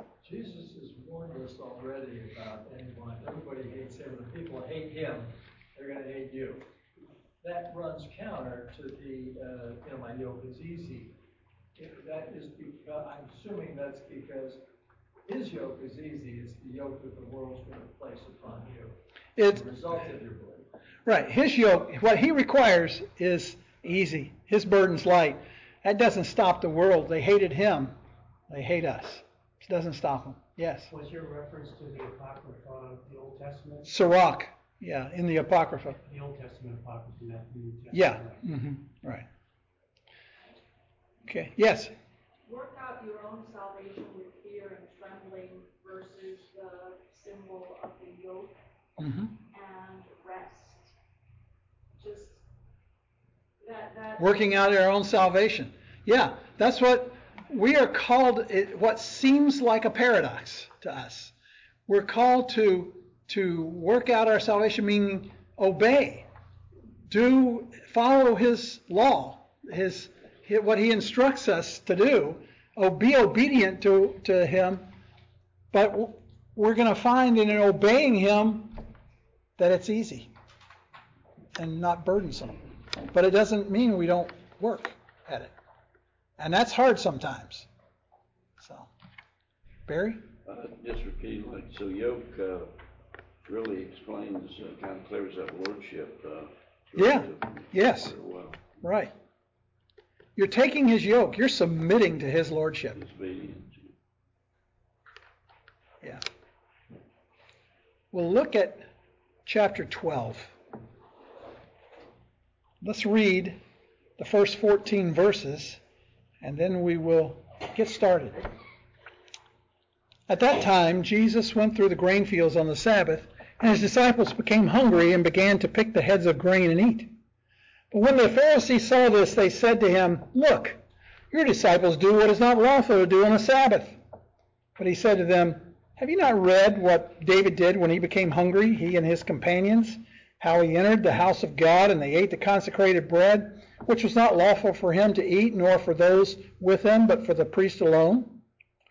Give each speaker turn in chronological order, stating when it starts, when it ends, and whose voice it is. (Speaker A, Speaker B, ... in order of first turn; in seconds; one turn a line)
Speaker A: 0.2-6.6
Speaker A: 7.4-11.1
Speaker A: 11.8-14.6
Speaker A: 15.2-18.9
Speaker B: 19.4-19.6
Speaker A: 19.5-20.7
Speaker B: 21.1-27.9
Speaker B: 28.5-30.9
Speaker C: 30.9-33.9
Speaker B: 33.9-36.0
Speaker C: 36.0-38.4
Speaker B: 37.9-39.2
Speaker B: 41.3-41.9
Speaker D: 42.5-48.5
Speaker B: 49.0-49.3
Speaker D: 49.5-50.9
Speaker D: 52.0-52.4
Speaker D: 53.6-54.5
Speaker B: 54.2-61.3
Speaker B: 61.9-66.3
Speaker B: 67.1-74.8
Speaker B: 75.7-78.8
Speaker B: 79.6-80.3
Speaker B: 81.6-85.5
Speaker B: 86.4-87.7
Speaker B: 88.6-88.9
Speaker B: 89.9-90.2
Speaker E: 90.4-92.8
Speaker E: 93.4-98.7
Speaker B: 97.0-98.1
Speaker B: 98.8-99.1
Speaker B: 100.3-103.0
Speaker E: 102.9-103.9
Speaker B: 108.1-108.9
Speaker B: 109.5-110.5
Speaker B: 112.8-113.6
Speaker B: 114.2-115.8
Speaker B: 116.4-118.5
Speaker B: 120.3-127.1
Speaker B: 127.9-134.0
Speaker B: 134.8-148.4